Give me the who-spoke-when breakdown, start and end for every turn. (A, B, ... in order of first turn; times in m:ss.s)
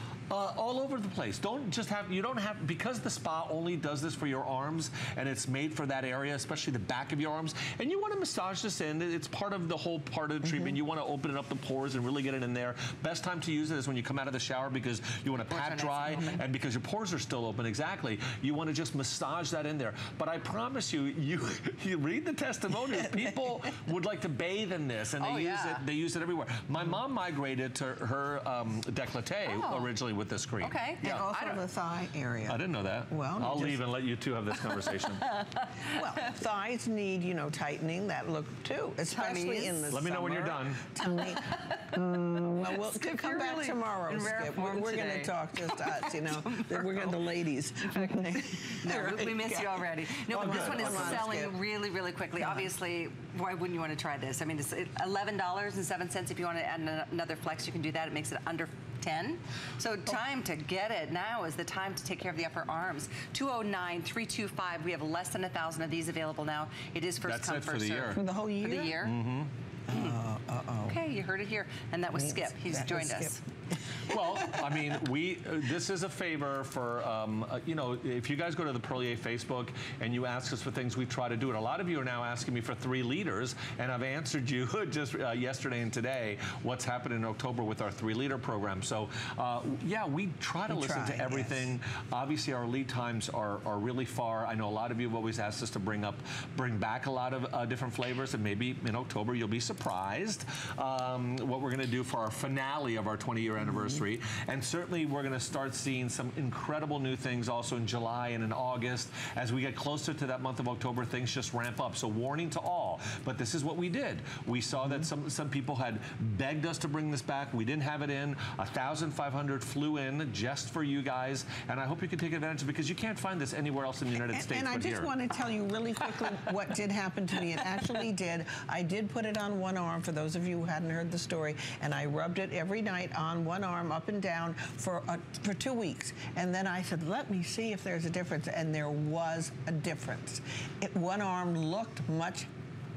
0:00.3-0:31.3 A
0:15.4-0:16.4 B
0:22.9-0:23.4 C
0:25.2-0:25.8 B
0:29.5-0:29.9 B
0:30.6-0:31.6 B
0:31.0-0:33.8 C
0:32.5-0:35.3 A
0:34.6-0:36.0 B
0:35.9-0:51.6 C
0:39.0-0:39.9 B
0:39.9-0:40.9 A
0:41.0-0:42.0 B
0:42.6-0:47.2 B
0:47.8-1:09.2 B
0:50.3-0:51.3 A
0:52.4-0:52.7 C
1:07.2-1:08.2 A
1:08.1-1:09.0 C
1:09.0-1:09.5 A
1:09.9-1:11.0 C
1:09.9-1:10.2 B
1:10.9-1:13.4 B
1:12.1-1:13.4 C
1:13.9-1:14.9 C
1:14.1-2:05.1 A
1:30.7-1:31.7 C
2:04.2-2:22.5 C